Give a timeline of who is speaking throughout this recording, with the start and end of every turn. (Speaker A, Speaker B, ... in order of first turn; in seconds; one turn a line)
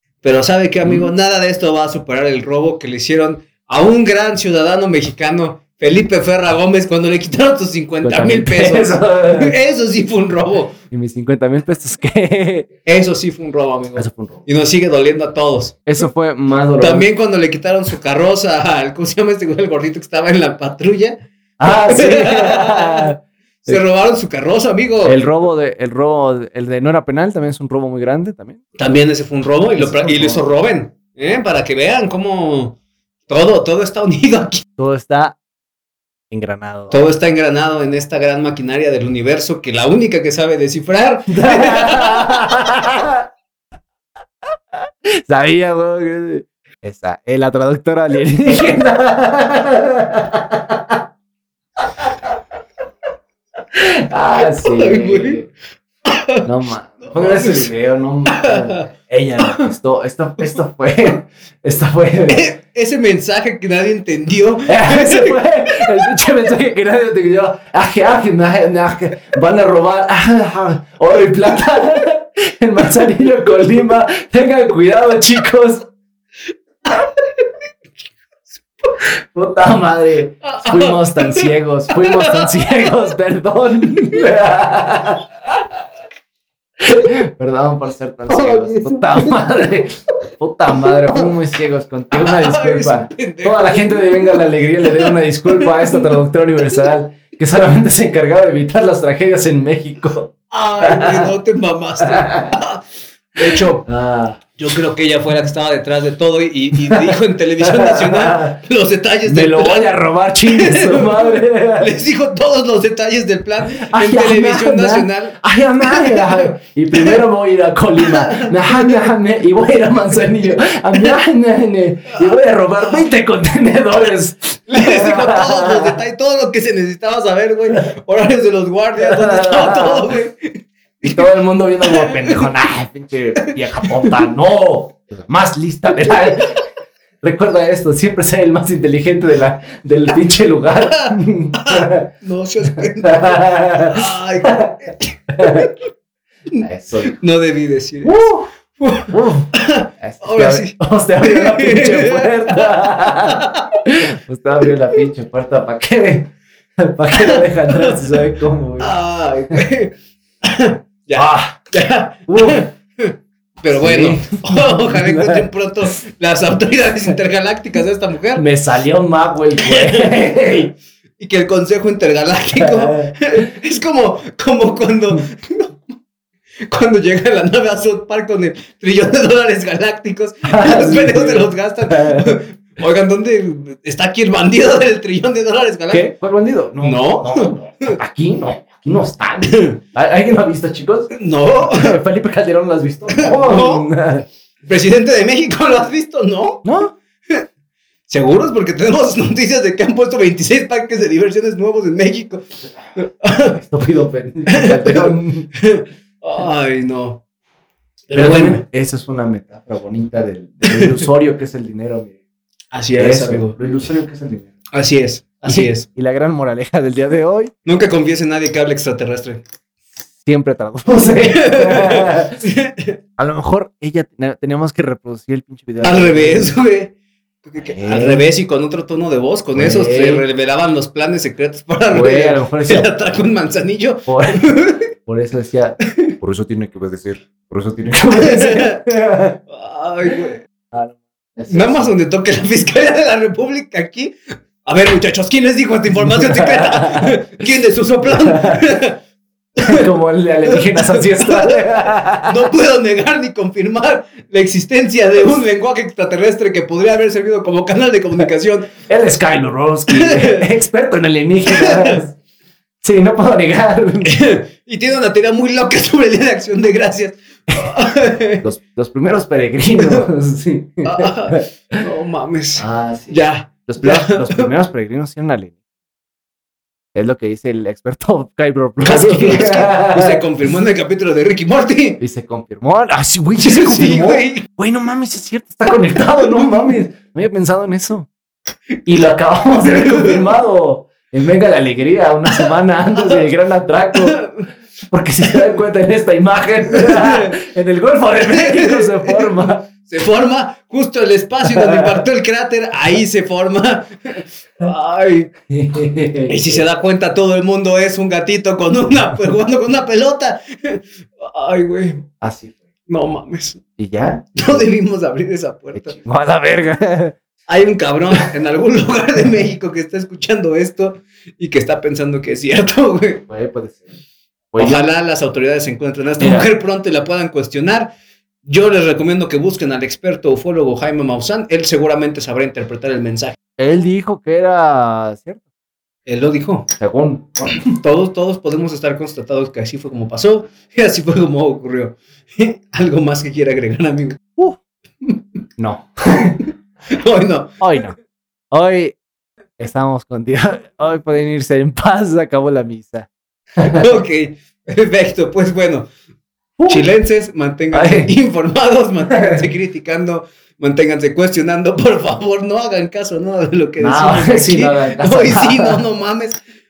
Speaker A: 0.2-10.8
Speaker B: 0.8-1.1
Speaker B: 8.0-9.6
Speaker B: 10.9-12.7
Speaker A: 12.8-15.8
Speaker B: 13.9-14.4
Speaker B: 15.9-17.1
Speaker A: 16.8-23.1
Speaker B: 21.6-23.8
Speaker A: 23.6-25.2
Speaker B: 25.0-28.6
Speaker A: 28.8-34.6
Speaker B: 29.8-30.5
Speaker B: 34.8-35.4
Speaker B: 36.3-37.0
Speaker A: 36.9-42.5
Speaker B: 41.3-43.2
Speaker B: 45.0-51.0
Speaker B: 52.0-52.3
Speaker B: 53.7-55.5
Speaker A: 54.6-55.4
Speaker A: 56.0-56.5
Speaker B: 56.4-62.5
Speaker A: 57.0-57.7
Speaker A: 58.3-59.7
Speaker A: 62.3-65.8
Speaker B: 64.7-75.9
Speaker A: 76.8-77.4
Speaker B: 79.3-85.3
Speaker A: 80.4-83.0
Speaker B: 86.8-101.3
Speaker A: 88.3-89.4
Speaker A: 90.8-91.3
Speaker A: 92.1-96.1
Speaker A: 100.5-102.8
Speaker B: 102.0-102.5
Speaker A: 103.3-103.9
Speaker B: 103.5-104.4
Speaker A: 104.6-109.9
Speaker B: 106.9-108.6
Speaker B: 109.2-111.9
Speaker A: 110.5-117.2
Speaker B: 113.6-126.0
Speaker A: 118.0-119.0
Speaker A: 124.7-131.2
Speaker B: 128.9-130.1
Speaker B: 131.0-136.6
Speaker A: 131.8-132.5
Speaker A: 133.4-134.3
Speaker A: 136.1-136.5
Speaker B: 137.2-142.1
Speaker A: 140.8-145.8
Speaker B: 143.0-145.7
Speaker A: 146.5-153.8
Speaker B: 146.6-147.2
Speaker B: 148.0-148.5
Speaker B: 149.1-158.9
Speaker A: 157.1-158.2
Speaker A: 158.8-168.4
Speaker B: 161.1-161.6
Speaker B: 162.3-162.7
Speaker B: 163.7-165.5
Speaker B: 168.3-170.7
Speaker A: 169.6-175.8
Speaker B: 172.6-173.3
Speaker A: 176.7-186.1
Speaker B: 180.5-182.4
Speaker B: 185.9-194.2
Speaker A: 186.8-188.0
Speaker A: 189.4-189.8
Speaker A: 191.1-191.9
Speaker A: 193.1-193.9
Speaker A: 194.7-196.6
Speaker B: 196.6-196.9
Speaker A: 198.1-203.6
Speaker B: 203.5-205.5
Speaker A: 204.5-207.2
Speaker A: 208.1-208.6
Speaker B: 208.1-212.2
Speaker A: 210.7-211.0
Speaker A: 212.7-213.6
Speaker B: 213.0-214.5
Speaker A: 214.7-215.9
Speaker B: 215.5-217.5
Speaker A: 217.6-219.4
Speaker B: 220.2-222.4
Speaker A: 221.0-223.0
Speaker B: 223.2-226.6
Speaker A: 225.8-226.9
Speaker A: 227.4-234.9
Speaker B: 227.6-228.3
Speaker B: 229.5-230.2
Speaker B: 231.9-232.9
Speaker B: 234.1-239.4
Speaker A: 235.9-236.2
Speaker A: 238.1-238.8
Speaker A: 239.5-240.4
Speaker B: 240.7-241.9
Speaker A: 241.5-249.0
Speaker B: 245.9-247.2
Speaker B: 248.0-248.7
Speaker A: 249.6-249.8
Speaker B: 249.6-252.5
Speaker A: 250.5-258.8
Speaker B: 258.8-262.2
Speaker A: 259.9-260.4
Speaker A: 261.4-262.0
Speaker B: 262.8-264.1
Speaker A: 264.0-268.4
Speaker B: 268.4-271.4
Speaker A: 269.8-270.1
Speaker A: 270.8-274.5
Speaker B: 272.6-275.6
Speaker B: 276.9-280.2
Speaker A: 278.8-282.0
Speaker B: 282.0-288.1
Speaker A: 283.4-284.4
Speaker A: 286.2-286.5
Speaker B: 288.9-294.3
Speaker A: 289.6-290.2
Speaker A: 292.3-293.2
Speaker A: 293.9-294.4
Speaker B: 294.9-299.6
Speaker A: 296.7-297.4
Speaker A: 298.2-305.3
Speaker B: 301.4-302.0
Speaker B: 305.5-306.6
Speaker A: 306.3-312.1
Speaker B: 312.2-312.5
Speaker A: 312.9-313.6
Speaker B: 313.8-314.7
Speaker A: 314.4-316.0
Speaker B: 315.7-317.2
Speaker A: 317.5-323.2
Speaker B: 323.3-323.9
Speaker B: 324.5-324.9
Speaker A: 324.6-333.4
Speaker B: 326.2-326.5
Speaker B: 333.6-335.4
Speaker A: 336.1-336.7
Speaker B: 336.8-337.6
Speaker A: 337.6-344.2
Speaker B: 345.6-346.4
Speaker A: 346.4-347.6
Speaker B: 347.6-347.9
Speaker B: 348.5-348.9
Speaker B: 349.6-354.0
Speaker A: 353.6-355.9
Speaker B: 356.6-356.9
Speaker A: 356.7-366.4
Speaker B: 357.7-358.1
Speaker B: 359.1-359.4
Speaker B: 363.8-365.8